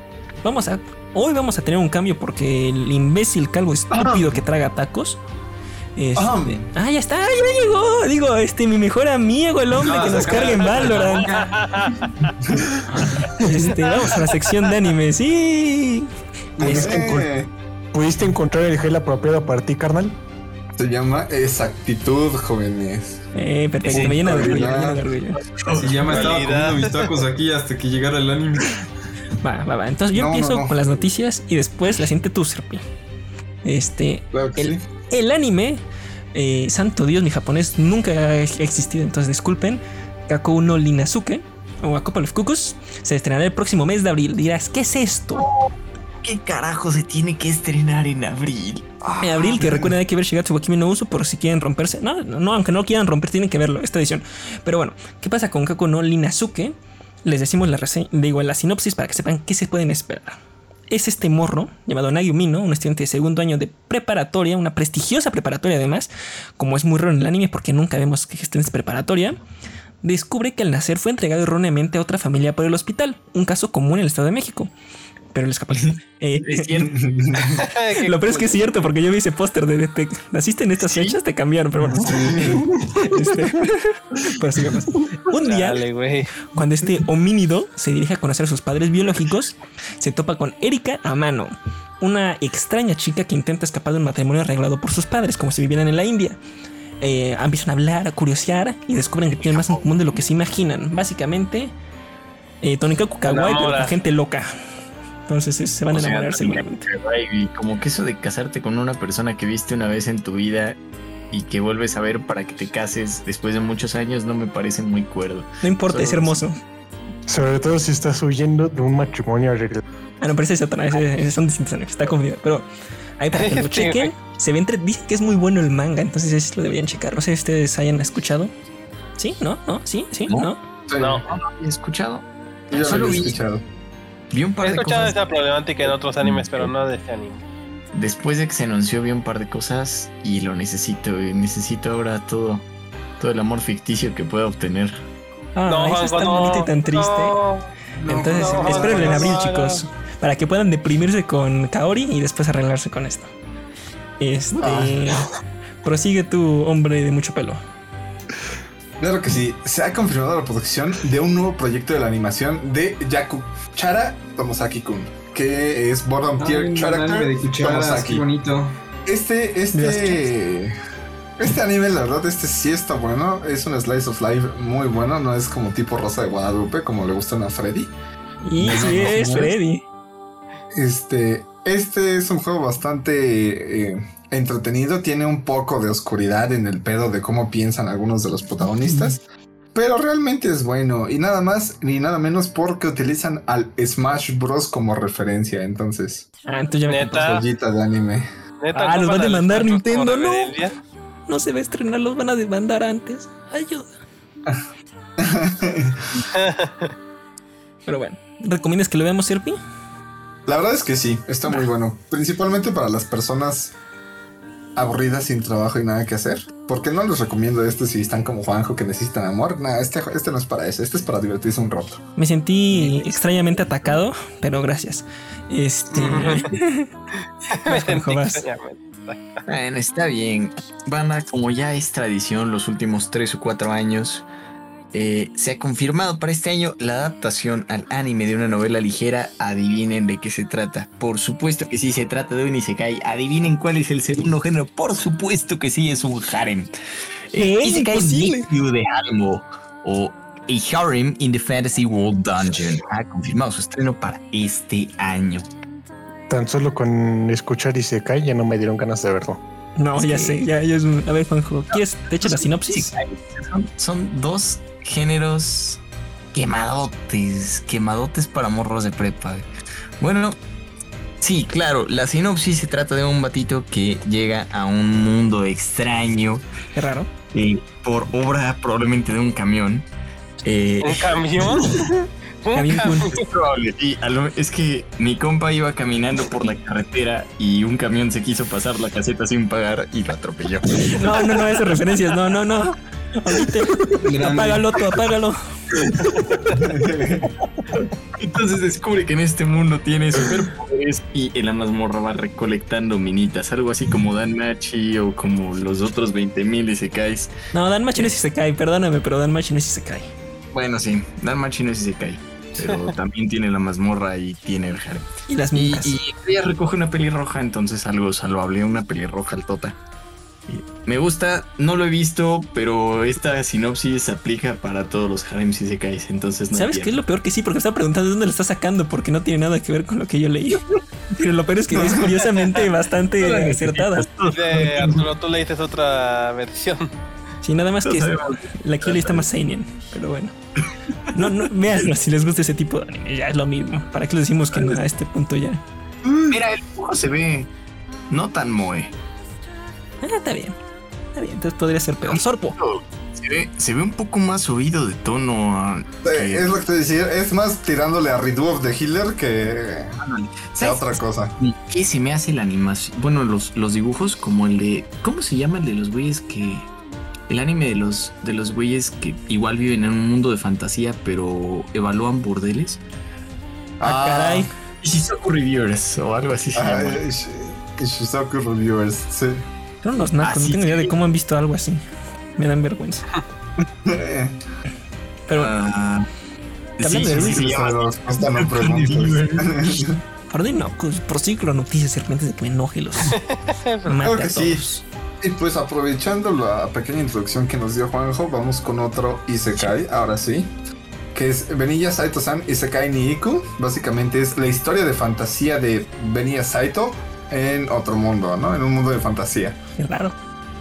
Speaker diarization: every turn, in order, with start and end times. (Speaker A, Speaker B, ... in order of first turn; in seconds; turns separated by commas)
Speaker A: 0.4-5.2, Speaker B: 3.9-4.4, Speaker A: 6.0-11.3, Speaker B: 6.2-6.7, Speaker C: 9.8-11.9, Speaker D: 11.3-12.3, Speaker B: 12.4-12.7, Speaker A: 13.4-16.9, Speaker D: 14.0-14.6, Speaker B: 16.6-17.5, Speaker E: 16.6-17.3, Speaker E: 17.9-20.2, Speaker B: 20.8-23.2, Speaker A: 23.3-25.4, Speaker F: 23.9-24.7, Speaker B: 23.9-25.1, Speaker F: 25.6-26.2, Speaker C: 25.7-28.9, Speaker D: 26.1-27.1, Speaker A: 29.4-32.8, Speaker B: 30.1-31.0, Speaker A: 33.6-35.8, Speaker B: 34.3-34.8, Speaker A: 36.3-45.5, Speaker F: 45.4-49.9, Speaker A: 49.2-56.7, Speaker A: 57.2-60.4, Speaker A: 60.9-69.4, Speaker A: 70.0-74.7, Speaker A: 75.3-76.7, Speaker F: 75.7-77.4, Speaker B: 76.8-77.5, Speaker D: 77.5-78.7, Speaker A: 78.0-85.8, Speaker F: 80.8-81.2, Speaker F: 82.0-82.6, Speaker B: 82.1-82.6, Speaker D: 85.3-86.3, Speaker A: 86.5-96.4, Speaker A: 97.0-101.7, Speaker F: 99.3-100.2, Speaker A: 102.6-104.5, Speaker D: 103.2-103.9, Speaker A: 105.3-106.9, Speaker F: 105.9-110.8, Speaker F: 111.3-116.5, Speaker A: 115.6-116.6, Speaker E: 117.3-119.8, Speaker A: 120.2-122.7, Speaker A: 123.2-128.5, Speaker D: 123.3-124.1, Speaker A: 129.2-130.6, Speaker B: 130.9-131.2, Speaker D: 131.0-131.3, Speaker F: 131.2-133.4, Speaker B: 132.7-133.7, Speaker F: 134.3-135.2, Speaker D: 134.6-137.4, Speaker F: 135.8-136.7, Speaker F: 137.9-142.7, Speaker F: 143.2-145.0, Speaker A: 145.6-147.4, Speaker D: 145.7-147.7, Speaker B: 148.0-149.5, Speaker A: 148.1-153.3, Speaker D: 148.3-149.8, Speaker A: 154.2-155.3, Speaker B: 154.6-155.1, Speaker A: 155.8-157.6, Speaker B: 159.0-168.2, Speaker C: 166.4-168.8, Speaker B: 169.1-170.7, Speaker A: 169.7-170.3, Speaker B: 171.4-177.9, Speaker A: 178.4-179.8, Speaker B: 178.6-179.5, Speaker B: 180.7-189.2, Speaker A: 188.9-189.1, Speaker B: 189.8-196.3, Speaker A: 196.5-197.3, Speaker D: 196.9-197.4, Speaker B: 197.2-198.3, Speaker D: 198.6-200.8, Speaker A: 198.7-200.6, Speaker A: 201.3-203.9, Speaker B: 205.2-206.1, Speaker D: 206.3-206.9, Speaker A: 207.9-209.6, Speaker B: 210.5-213.8, Speaker B: 214.8-222.0, Speaker A: 222.2-226.9, Speaker D: 225.9-226.5, Speaker D: 227.5-229.2, Speaker A: 227.7-228.5, Speaker F: 229.5-234.3, Speaker F: 234.9-246.7, Speaker F: 247.3-255.5, Speaker A: 247.3-248.5, Speaker E: 256.3-259.4, Speaker A: 259.8-262.9, Speaker F: 260.0-260.5, Speaker F: 261.7-265.8, Speaker F: 266.3-269.5, Speaker F: 270.0-270.4, Speaker F: 271.2-276.4, Speaker A: 276.8-277.1, Speaker F: 277.3-279.9, Speaker F: 280.4-281.8, Speaker D: 280.8-281.8, Speaker D: 282.4-283.2, Speaker A: 282.5-283.1, Speaker F: 283.1-291.6, Speaker A: 290.9-295.4, Speaker C: 294.0-294.8, Speaker B: 296.6-297.3, Speaker F: 298.2-307.3, Speaker A: 307.5-310.1, Speaker F: 310.5-319.8, Speaker A: 315.3-316.0, Speaker F: 320.5-327.0, Speaker A: 326.5-334.1, Speaker F: 331.7-332.7, Speaker F: 333.2-335.1, Speaker D: 334.3-336.9, Speaker A: 337.4-340.3, Speaker F: 337.8-339.3, Speaker A: 341.1-345.6, Speaker F: 341.1-341.5, Speaker F: 344.5-344.8, Speaker B: 346.1-346.3, Speaker F: 346.3-347.5, Speaker F: 348.1-348.9, Speaker A: 350.0-350.6, Speaker A: 351.1-352.6, Speaker F: 352.1-356.5, Speaker B: 356.0-360.0, Speaker F: 360.0-366.7, Speaker B: 360.5-361.4, Speaker F: 367.3-372.8, Speaker B: 373.8-374.5, Speaker A: 373.8-374.5, Speaker F: 374.8-377.0, Speaker B: 376.5-379.4, Speaker A: 379.8-381.8, Speaker F: 380.2-380.9, Speaker A: 382.4-383.1, Speaker B: 383.9-384.4, Speaker A: 385.3-385.5, Speaker F: 385.3-386.1, Speaker F: 386.8-389.9, Speaker A: 386.8-387.5, Speaker B: 387.1-390.0, Speaker A: 390.3-393.2, Speaker D: 393.1-394.0, Speaker A: 393.9-394.8, Speaker B: 394.0-394.7, Speaker B: 395.2-400.5, Speaker B: 401.1-409.6, Speaker A: 409.8-410.1